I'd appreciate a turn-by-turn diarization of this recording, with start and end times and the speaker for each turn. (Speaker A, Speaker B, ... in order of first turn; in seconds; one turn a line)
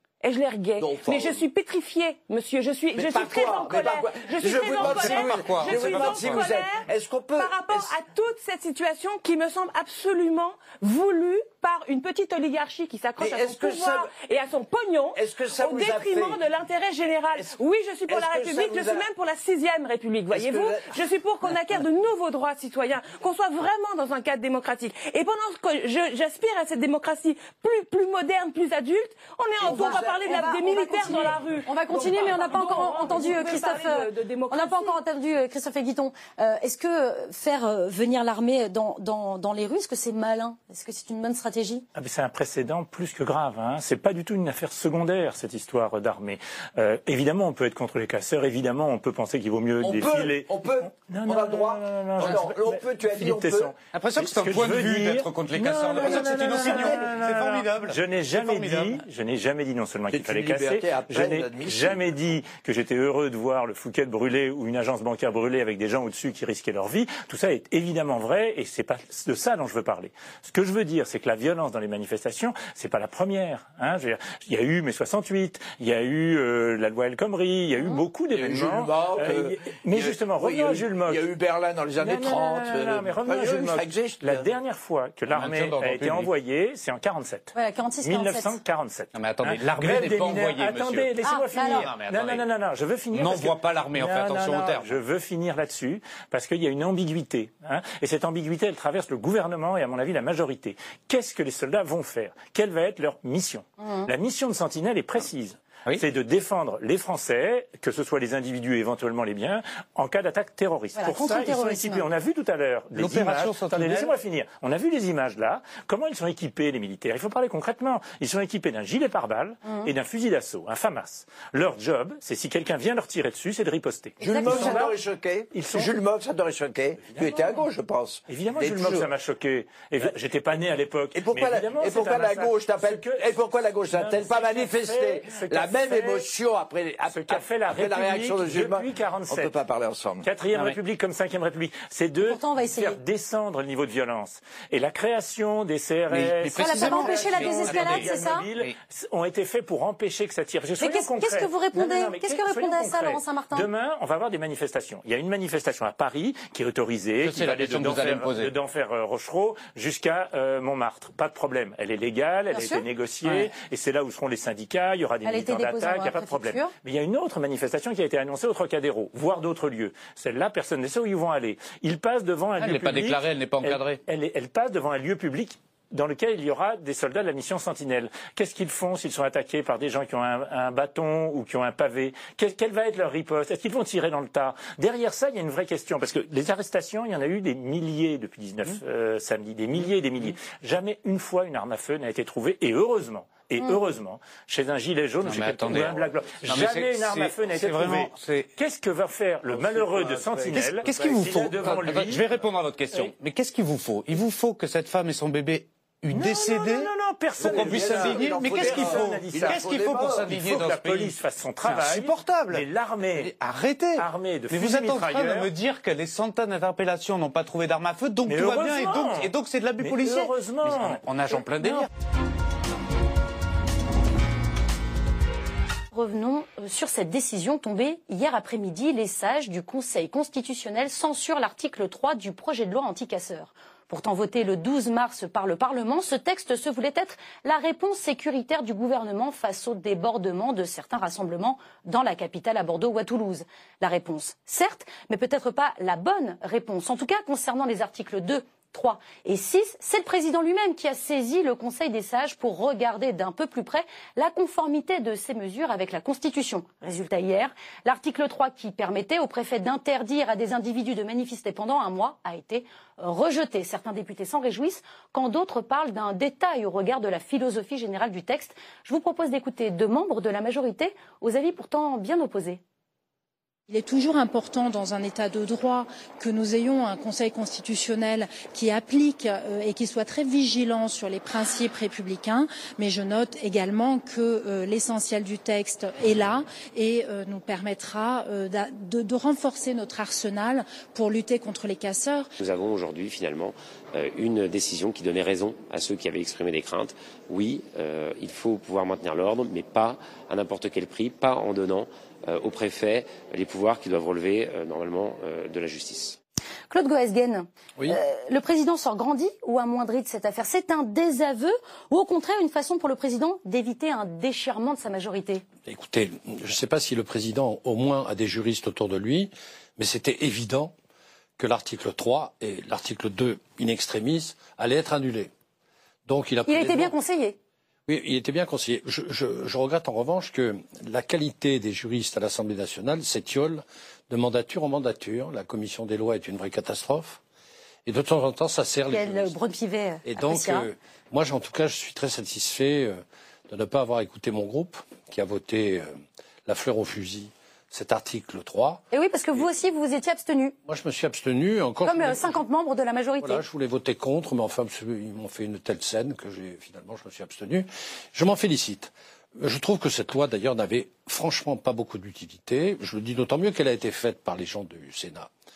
Speaker A: 0.2-35.0
Speaker B: 0.8-1.4
Speaker B: 2.9-7.9
Speaker C: 4.6-6.3
Speaker B: 13.2-14.1
Speaker B: 15.1-16.4
Speaker B: 17.3-17.6
Speaker B: 18.1-19.1
Speaker B: 20.3-21.0
Speaker B: 29.6-30.1
Speaker D: 29.6-41.9
Speaker E: 42.0-55.3
Speaker B: 49.8-53.7
Speaker C: 53.9-59.0
Speaker E: 55.9-81.3
Speaker B: 56.0-57.0
Speaker B: 60.1-62.1
Speaker B: 78.3-84.5
Speaker E: 82.0-124.9
Speaker C: 85.3-86.3
Speaker D: 87.5-88.6
Speaker C: 89.1-92.4
Speaker D: 91.2-91.9
Speaker C: 93.1-95.0
Speaker D: 103.8-104.1
Speaker D: 111.0-112.1
Speaker C: 113.0-113.8
Speaker B: 124.2-129.1
Speaker D: 124.3-124.8
Speaker E: 125.5-125.9
Speaker E: 128.3-136.3
Speaker B: 131.1-140.7
Speaker E: 137.1-139.6
Speaker E: 140.2-202.3
Speaker D: 142.2-143.0
Speaker C: 146.1-148.7
Speaker D: 146.5-148.5
Speaker D: 150.8-153.7
Speaker C: 157.2-158.5
Speaker D: 162.5-162.8
Speaker D: 165.2-166.7
Speaker C: 172.6-174.0
Speaker C: 195.2-198.5
Speaker C: 199.5-211.1
Speaker E: 206.1-213.3
Speaker B: 207.4-210.5
Speaker C: 211.6-221.9
Speaker E: 214.0-215.5
Speaker E: 218.3-221.4
Speaker D: 225.9-272.6
Speaker F: 273.7-292.3
Speaker G: 292.4-306.2
Speaker D: 306.7-315.4
Speaker H: 315.7-320.7
Speaker H: 321.4-325.3
Speaker H: 326.1-326.9
Speaker D: 326.5-327.4
Speaker H: 327.9-337.2
Speaker H: 337.9-339.4
Speaker D: 338.9-340.7
Speaker H: 340.1-345.9
Speaker H: 346.5-348.8
Speaker D: 348.9-350.6
Speaker H: 350.7-352.4
Speaker D: 351.8-353.4
Speaker H: 353.2-365.3